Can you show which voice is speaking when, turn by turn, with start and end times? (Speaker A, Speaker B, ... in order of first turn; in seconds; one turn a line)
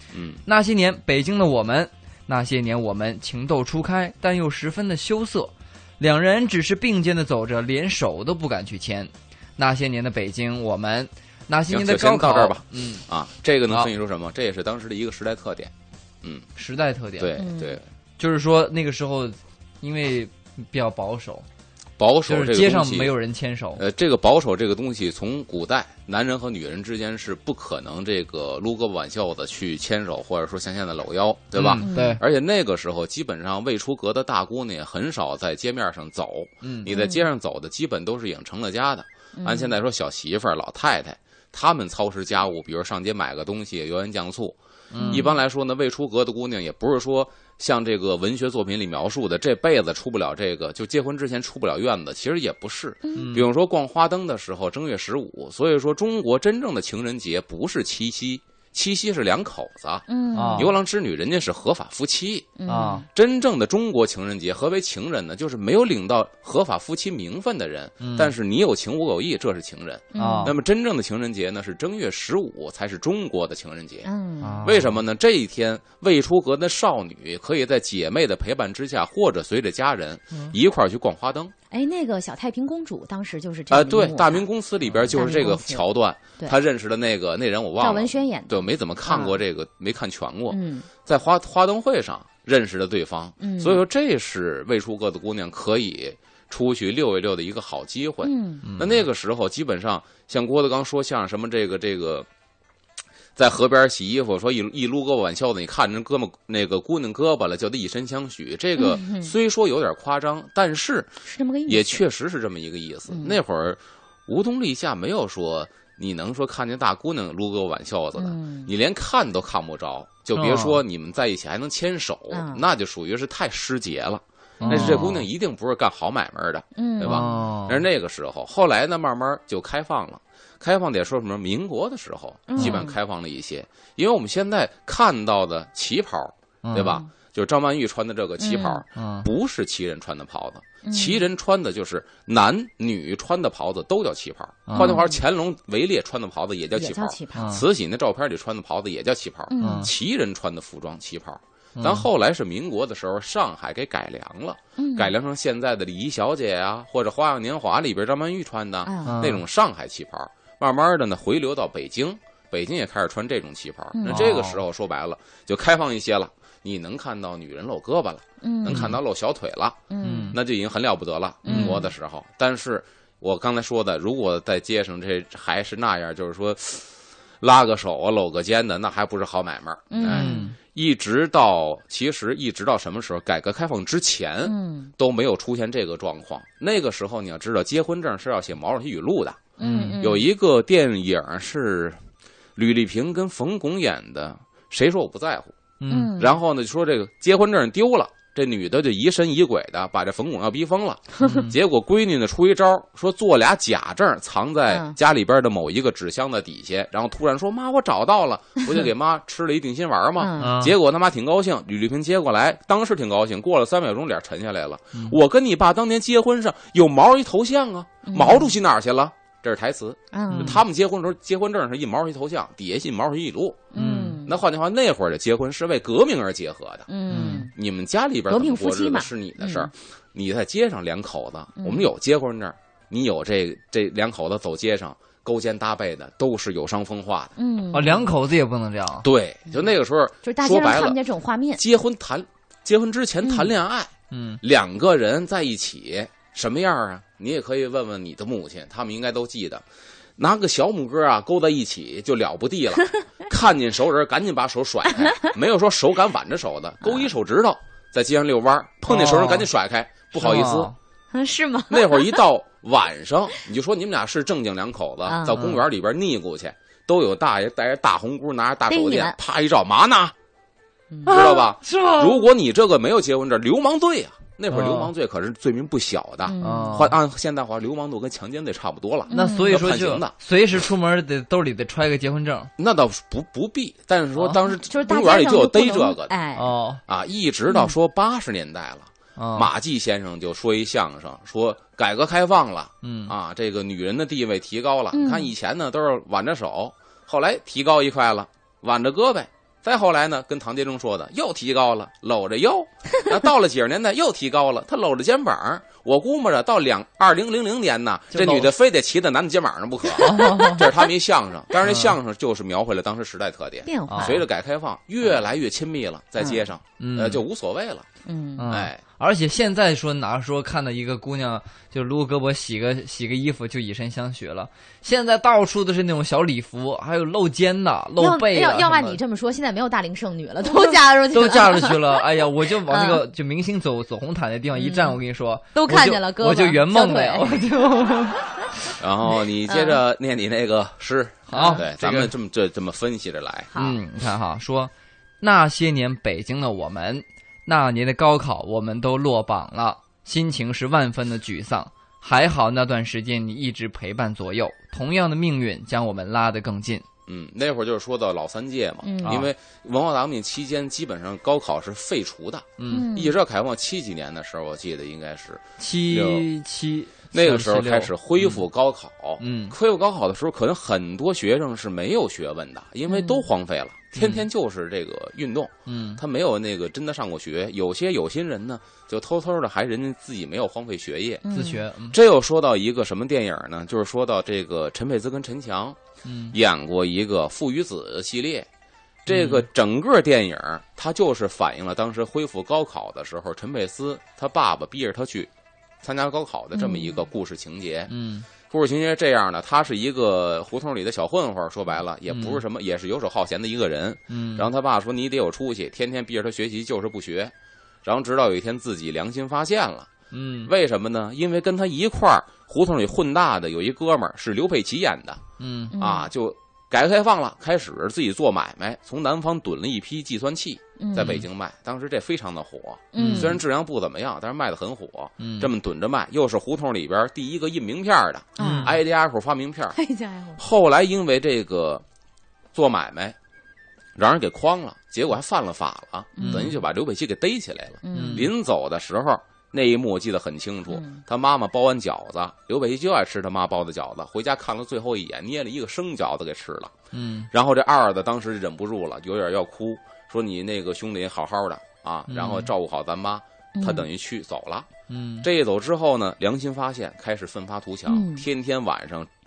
Speaker A: 0.1-0.4
Speaker B: 0.5-13.1
Speaker A: 11.7-16.5
Speaker B: 16.6-17.4
Speaker A: 17.2-17.9
Speaker C: 17.4-17.8
Speaker B: 18.2-21.4
Speaker A: 22.0-23.1
Speaker B: 22.3-23.8
Speaker A: 23.8-44.6
Speaker B: 31.6-32.2
Speaker C: 31.8-32.2
Speaker B: 36.6-36.9
Speaker C: 36.9-37.2
Speaker C: 39.4-39.7
Speaker B: 44.9-45.3
Speaker C: 45.0-45.3
Speaker A: 45.1-74.1
Speaker B: 53.1-53.5
Speaker C: 60.1-60.7
Speaker B: 60.4-60.7
Speaker C: 62.6-63.1
Speaker B: 62.7-63.0
Speaker B: 68.0-68.3
Speaker C: 70.1-70.6
Speaker B: 70.2-70.5
Speaker C: 74.0-74.7
Speaker B: 74.4-75.0
Speaker A: 74.6-81.5
Speaker C: 81.7-84.5
Speaker A: 83.7-102.3
Speaker C: 85.1-85.8
Speaker C: 87.8-89.4
Speaker C: 90.5-90.9
Speaker C: 93.4-93.8
Speaker C: 98.2-98.7
Speaker B: 98.7-99.0
Speaker A: 103.4-192.0
Speaker C: 108.8-109.3
Speaker C: 111.2-112.0
Speaker C: 113.1-113.4
Speaker C: 118.2-118.7
Speaker B: 120.3-120.8
Speaker C: 122.3-122.6
Speaker C: 124.6-125.0
Speaker B: 124.6-125.2
Speaker C: 126.8-127.3
Speaker B: 127.0-127.8
Speaker C: 132.5-133.0
Speaker B: 132.6-132.8
Speaker B: 136.6-137.0
Speaker C: 136.8-137.1
Speaker C: 138.4-138.8
Speaker B: 138.9-139.3
Speaker C: 140.8-141.3
Speaker B: 144.7-145.0
Speaker C: 144.7-145.2
Speaker C: 146.8-147.6
Speaker B: 147.3-147.7
Speaker C: 149.5-149.9
Speaker B: 149.6-149.9
Speaker B: 151.8-152.1
Speaker C: 154.8-155.1
Speaker C: 158.8-159.2
Speaker B: 159.0-159.4
Speaker C: 163.9-164.3
Speaker B: 164.1-164.6
Speaker C: 168.4-169.0
Speaker C: 169.9-170.4
Speaker B: 170.0-170.4
Speaker C: 171.4-171.9
Speaker B: 171.5-171.8
Speaker C: 179.9-180.5
Speaker B: 180.1-180.6
Speaker C: 184.4-184.9
Speaker C: 189.6-190.3
Speaker B: 189.6-190.1
Speaker A: 192.6-195.6
Speaker B: 195.8-196.1
Speaker C: 195.9-196.3
Speaker A: 196.2-223.7
Speaker B: 201.2-201.5
Speaker C: 204.7-205.0
Speaker C: 210.2-210.6
Speaker B: 210.4-210.7
Speaker C: 218.1-218.5
Speaker C: 220.1-220.6
Speaker B: 220.3-220.6
Speaker C: 223.7-224.3
Speaker B: 223.8-224.2
Speaker A: 224.2-226.9
Speaker C: 226.9-227.5
Speaker B: 227.1-227.5
Speaker A: 227.5-237.3
Speaker C: 228.3-229.7
Speaker C: 231.6-231.9
Speaker C: 237.4-238.1
Speaker B: 237.7-239.1
Speaker A: 239.0-241.0
Speaker C: 240.2-241.6
Speaker A: 241.6-249.6
Speaker C: 243.2-243.5
Speaker B: 244.1-244.4
Speaker A: 250.2-260.7
Speaker C: 255.0-255.3
Speaker B: 258.9-259.5
Speaker B: 260.1-260.8
Speaker C: 261.1-262.2
Speaker A: 261.7-270.1
Speaker C: 265.1-265.4
Speaker B: 265.3-265.6
Speaker C: 268.7-269.2
Speaker C: 270.9-271.4
Speaker B: 271.1-272.3
Speaker A: 271.1-280.1
Speaker B: 274.5-274.9
Speaker C: 276.2-276.8
Speaker B: 276.4-276.9
Speaker C: 279.1-279.6
Speaker B: 279.1-282.5
Speaker A: 282.6-286.1
Speaker C: 284.7-286.5
Speaker B: 286.4-286.8
Speaker A: 286.9-317.9
Speaker B: 289.2-289.5
Speaker B: 292.8-293.1
Speaker C: 294.9-295.3
Speaker B: 308.1-308.5
Speaker B: 310.0-310.6
Speaker C: 310.0-310.7
Speaker B: 311.6-311.9
Speaker C: 313.7-314.2
Speaker B: 313.9-314.2
Speaker B: 316.8-317.2
Speaker C: 318.1-318.6
Speaker B: 318.4-329.0
Speaker A: 318.5-318.8
Speaker C: 328.0-332.1
Speaker B: 330.4-338.3
Speaker C: 332.7-333.0
Speaker C: 334.6-335.0
Speaker C: 335.5-337.5
Speaker A: 338.8-343.5
Speaker C: 339.4-339.8
Speaker B: 341.3-342.1
Speaker C: 341.3-341.6
Speaker C: 343.5-343.8
Speaker B: 343.6-356.9
Speaker A: 357.1-366.3
Speaker C: 358.8-359.2
Speaker B: 362.6-362.9
Speaker C: 362.7-363.2
Speaker B: 365.6-368.4
Speaker A: 367.1-381.4
Speaker B: 369.2-369.6
Speaker C: 372.9-373.3
Speaker B: 374.0-374.2
Speaker B: 375.7-376.0
Speaker C: 381.2-381.6
Speaker B: 381.3-382.0
Speaker A: 381.9-385.8
Speaker B: 386.1-386.4
Speaker A: 386.3-388.5
Speaker A: 389.1-395.3
Speaker B: 389.1-389.5
Speaker A: 395.8-407.3
Speaker C: 396.5-397.0
Speaker B: 397.9-398.3
Speaker B: 402.1-402.4
Speaker B: 404.1-404.5
Speaker A: 407.8-409.9
Speaker B: 410.1-410.5
Speaker A: 410.5-415.2
Speaker B: 415.4-415.7
Speaker C: 415.7-416.1
Speaker A: 415.8-429.8
Speaker C: 420.8-421.2
Speaker C: 422.9-423.4
Speaker B: 422.9-423.4
Speaker B: 425.2-425.5
Speaker C: 428.4-428.8
Speaker B: 428.4-428.7
Speaker C: 429.8-430.4
Speaker A: 430.4-431.8
Speaker A: 432.5-433.2
Speaker A: 434.0-446.7
Speaker C: 436.2-436.5
Speaker B: 436.2-436.5
Speaker C: 437.8-438.3
Speaker B: 437.9-438.3
Speaker C: 440.7-441.0
Speaker B: 446.9-447.3
Speaker A: 447.3-454.7
Speaker B: 452.1-452.5
Speaker C: 453.6-453.9
Speaker B: 454.9-455.3
Speaker A: 455.2-459.1
Speaker C: 457.9-458.2